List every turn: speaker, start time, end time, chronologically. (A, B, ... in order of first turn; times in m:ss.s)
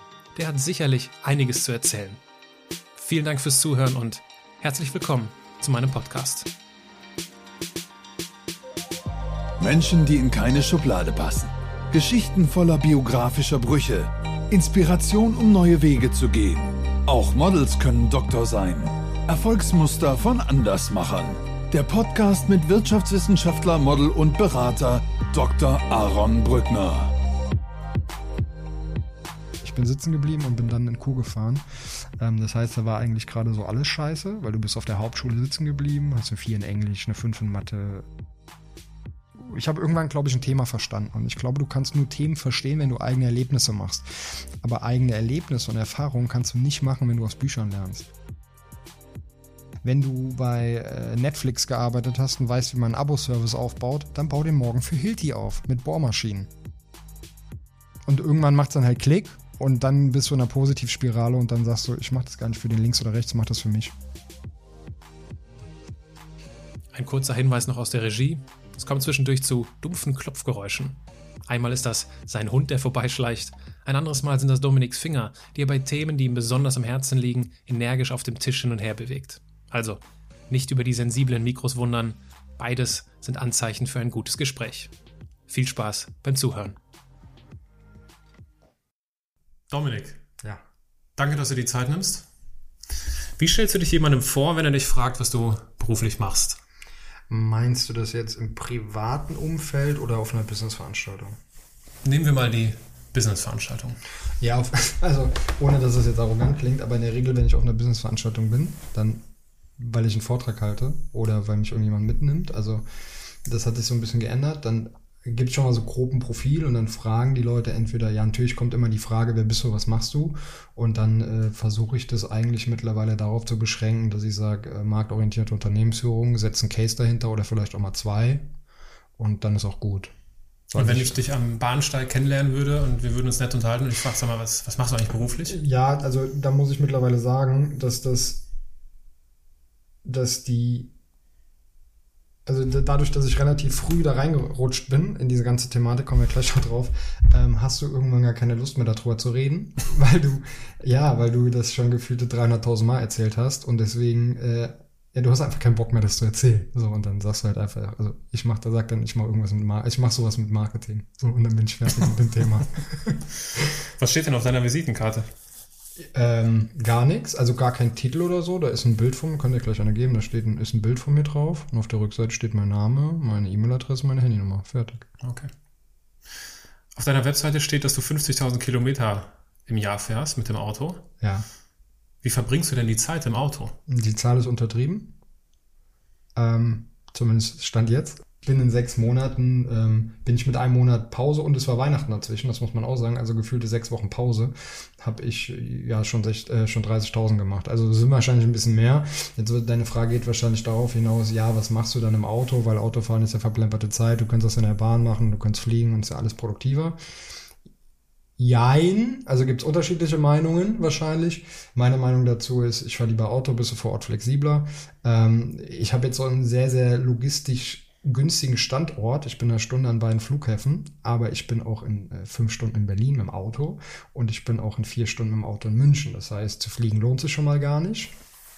0:00.3-0:02.2 A
0:03.0-0:06.5 A
0:09.6-0:27.1 B
0:29.6-0:31.6 C
0:32.2-0:38.1 C
0:39.3-0:48.1 C
0:49.8-0:56.5 C
0:58.0-1:03.9 C
1:06.9-1:24.9 A
1:25.5-1:26.8 A
1:29.7-1:30.2 A
1:31.2-1:32.3 A
1:33.4-1:36.6 A
1:37.3-1:41.4 C
1:42.0-1:44.0 A
1:44.4-1:49.2 C
1:49.8-1:52.8 C
1:53.4-2:08.5 C
2:09.2-2:10.1 C
2:10.7-2:11.2 C
2:10.8-2:15.6 A
2:15.4-2:18.5 C
2:20.0-2:20.9 C
2:22.4-2:43.7 C
2:44.0-2:45.2 A
2:46.0-2:55.1 C
2:55.2-2:55.5 A
2:56.9-3:01.0 A
3:01.2-3:01.5 C
3:02.2-3:03.8 A
3:03.9-3:05.1 C
3:06.3-3:27.0 C
3:28.4-3:48.1 C